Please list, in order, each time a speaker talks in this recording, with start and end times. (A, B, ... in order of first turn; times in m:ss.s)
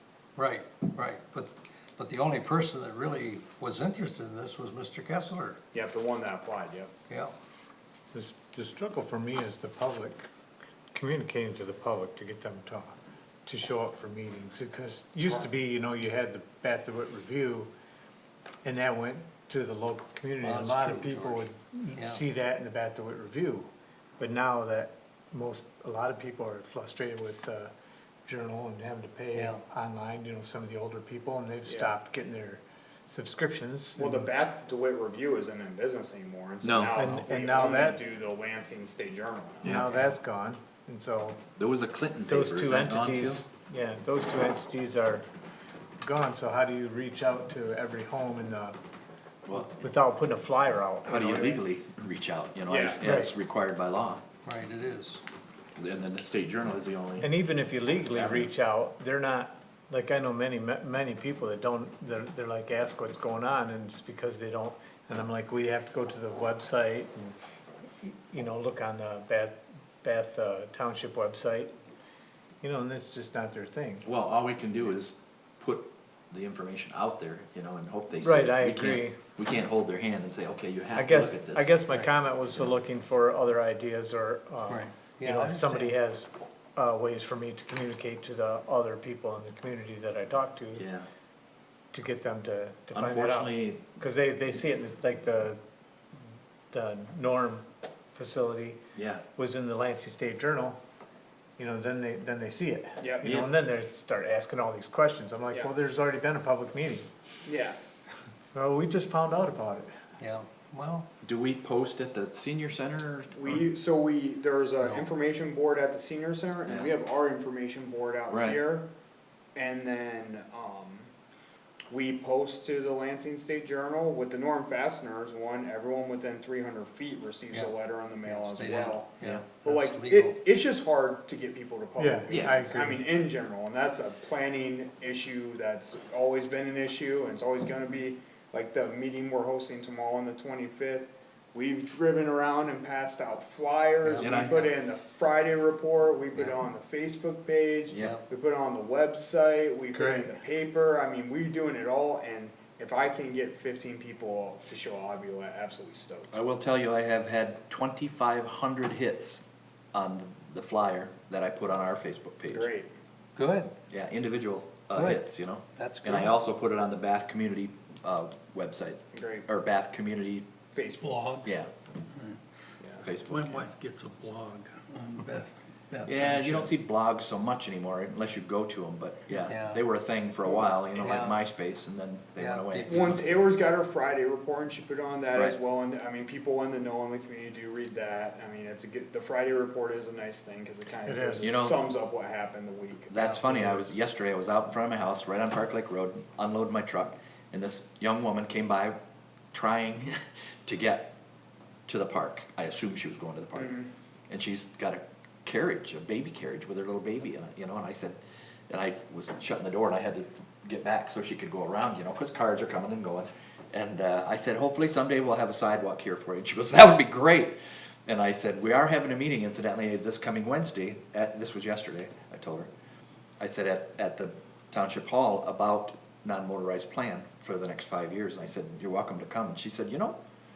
0:00.3-0:05.6 A
0:05.7-0:06.9 B
0:07.1-0:07.3 A
0:08.1-0:10.3 C
0:10.9-0:17.7 C
0:18.6-0:27.7 C
0:20.4-0:22.2 A
0:28.2-0:34.3 C
0:29.3-0:29.6 A
0:34.0-0:39.8 B
0:36.6-0:37.0 D
0:36.9-0:38.0 C
0:39.6-0:41.4 C
0:39.7-0:40.1 A
0:41.6-0:43.4 D
0:42.3-0:45.2 C
0:46.0-0:48.8 C
0:49.4-0:49.8 D
0:49.6-0:51.6 C
0:51.0-0:54.2 D
0:52.7-0:53.0 B
0:53.0-0:53.3 C
0:54.4-0:55.2 A
0:55.8-0:57.3 D
0:57.2-1:07.4 C
0:58.1-0:58.5 D
1:08.0-1:11.7 C
1:12.6-1:14.1 C
1:14.0-1:21.7 D
1:18.2-1:19.2 C
1:20.9-1:30.9 C
1:24.7-1:26.0 A
1:30.7-1:31.1 D
1:31.9-1:35.6 C
1:32.9-1:33.8 D
1:36.7-1:38.8 C
1:38.9-1:39.2 D
1:39.3-1:40.8 C
1:41.6-1:47.1 C
1:43.0-1:43.4 B
1:43.2-1:43.5 D
1:47.4-1:47.8 B
1:48.5-1:49.9 C
1:50.2-1:51.1 A
1:51.2-1:53.6 D
1:53.3-1:58.9 B
1:56.7-1:56.9 D
1:58.3-1:58.6 D
1:59.5-2:01.1 B
2:01.9-2:09.1 B
2:08.2-2:10.4 A
2:09.6-2:36.3 B
2:12.0-2:13.0 C
2:24.0-2:24.4 A
2:24.2-2:24.7 D
2:29.9-2:30.3 C
2:36.3-2:39.4 D
2:39.9-2:42.7 D
2:42.5-2:42.9 B
2:43.4-2:43.7 A
2:43.9-2:50.5 D
2:44.9-2:45.2 A
2:45.8-2:46.3 A
2:49.1-2:49.5 B
2:50.7-2:51.2 B
2:51.4-2:51.7 D
2:52.8-2:53.1 B
2:53.0-2:53.7 D
2:53.3-2:56.7 E
2:56.0-3:03.2 D
2:59.5-2:59.8 A
3:00.5-3:00.8 B
3:01.0-3:01.4 A
3:02.4-3:03.3 A
3:02.9-3:13.8 B
3:11.0-3:11.5 C
3:11.4-3:11.8 D
3:13.1-3:19.0 D
3:13.1-3:13.6 A
3:19.5-3:21.1 D
3:21.9-3:23.8 D
3:23.5-3:23.9 B
3:24.3-3:28.2 D
3:28.7-3:42.7 D
3:43.4-3:50.2 D